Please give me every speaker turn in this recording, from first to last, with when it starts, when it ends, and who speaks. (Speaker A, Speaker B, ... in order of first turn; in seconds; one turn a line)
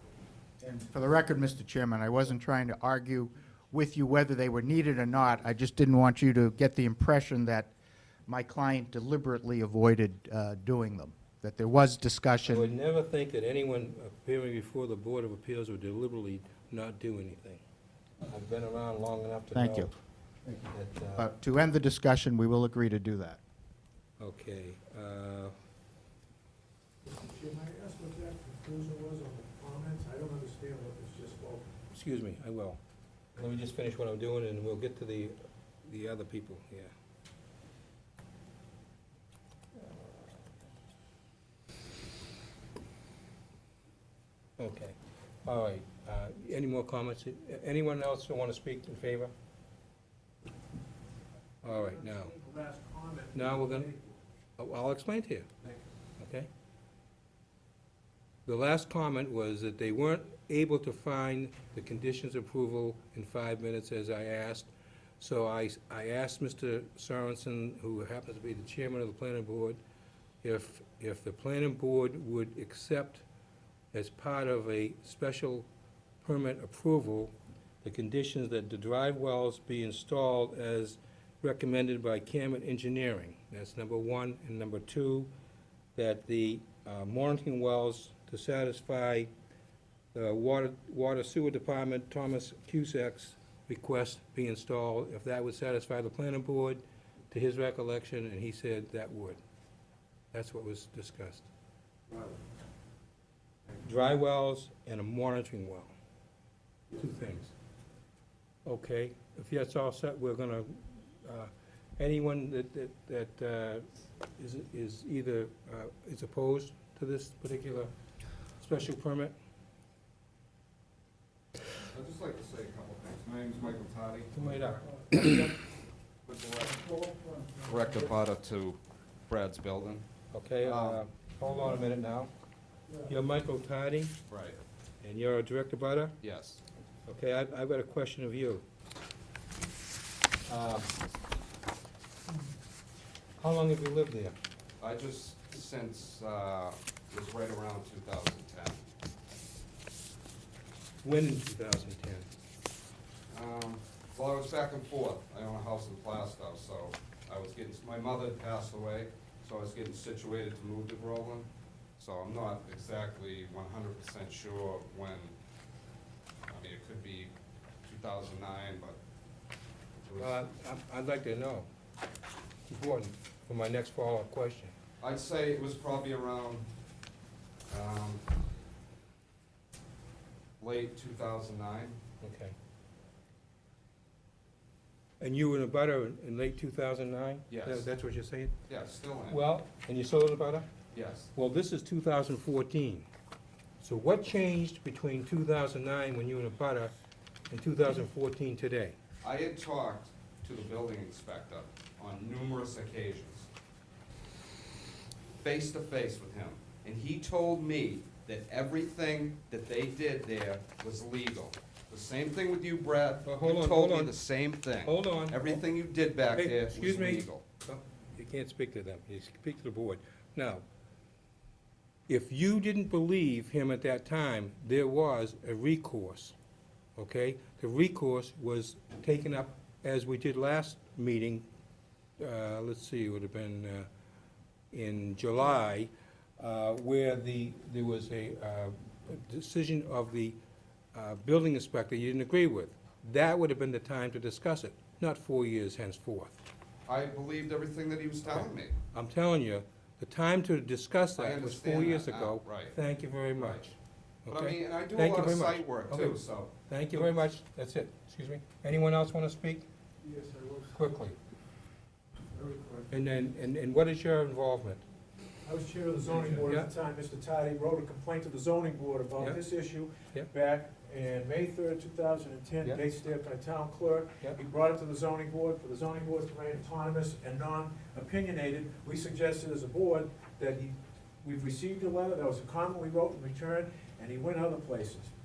Speaker A: 0.6-7.7
Speaker A: 8.3-12.7
Speaker B: 12.4-17.6
Speaker B: 18.2-19.9
Speaker A: 19.5-19.9
Speaker B: 20.6-21.3
Speaker A: 21.1-23.4
Speaker B: 24.2-25.5
Speaker C: 27.0-31.7
Speaker B: 31.9-32.8
Speaker B: 33.4-36.9
Speaker B: 44.6-49.3
Speaker B: 51.6-52.3
Speaker C: 51.6-54.1
Speaker B: 53.3-53.9
Speaker B: 54.6-55.5
Speaker B: 56.2-56.5
Speaker B: 58.5-69.8
Speaker B: 70.4-73.2
Speaker B: 73.9-75.7
Speaker B: 76.2-85.3
Speaker B: 85.9-89.3
Speaker B: 90.1-99.4
Speaker B: 100.3-101.5
Speaker B: 103.8-105.9
Speaker B: 106.9-107.5
Speaker B: 108.6-113.8
Speaker B: 114.4-117.9
Speaker B: 118.6-119.3
Speaker D: 121.9-124.8
Speaker B: 124.3-125.5
Speaker D: 126.2-130.0
Speaker B: 130.3-132.3
Speaker D: 130.6-131.0
Speaker B: 133.0-134.1
Speaker D: 134.3-134.6
Speaker B: 135.0-136.2
Speaker D: 136.2-136.6
Speaker B: 137.1-138.6
Speaker B: 140.5-140.9
Speaker B: 143.4-144.3
Speaker D: 144.8-148.8
Speaker B: 151.0-152.3
Speaker D: 153.3-165.3
Speaker D: 166.5-167.3
Speaker D: 167.8-169.0
Speaker D: 170.1-170.5
Speaker B: 170.2-171.7
Speaker B: 172.7-174.7
Speaker D: 175.0-176.7
Speaker D: 177.7-178.3
Speaker D: 180.6-182.0
Speaker B: 182.2-182.6
Speaker B: 185.2-188.5
Speaker D: 187.5-187.9
Speaker D: 188.7-189.4
Speaker B: 189.3-190.7
Speaker D: 190.9-191.3
Speaker B: 191.3-193.1
Speaker B: 193.8-196.9
Speaker B: 197.5-199.0
Speaker D: 199.2-203.5
Speaker D: 205.4-217.4
Speaker B: 213.4-214.1
Speaker B: 214.8-215.6
Speaker B: 216.3-220.6
Speaker B: 222.1-226.3
Speaker B: 226.9-231.4
Speaker B: 232.2-233.9
Speaker B: 234.7-240.4
Speaker B: 240.9-246.4
Speaker D: 246.9-248.7
Speaker B: 248.3-253.7
Speaker D: 251.2-252.7
Speaker D: 253.3-253.6
Speaker B: 254.2-259.7
Speaker D: 254.3-256.5
Speaker C: 260.0-260.8
Speaker B: 260.7-261.1
Speaker C: 262.3-262.9
Speaker B: 262.9-264.8
Speaker C: 265.4-285.1
Speaker B: 266.4-266.7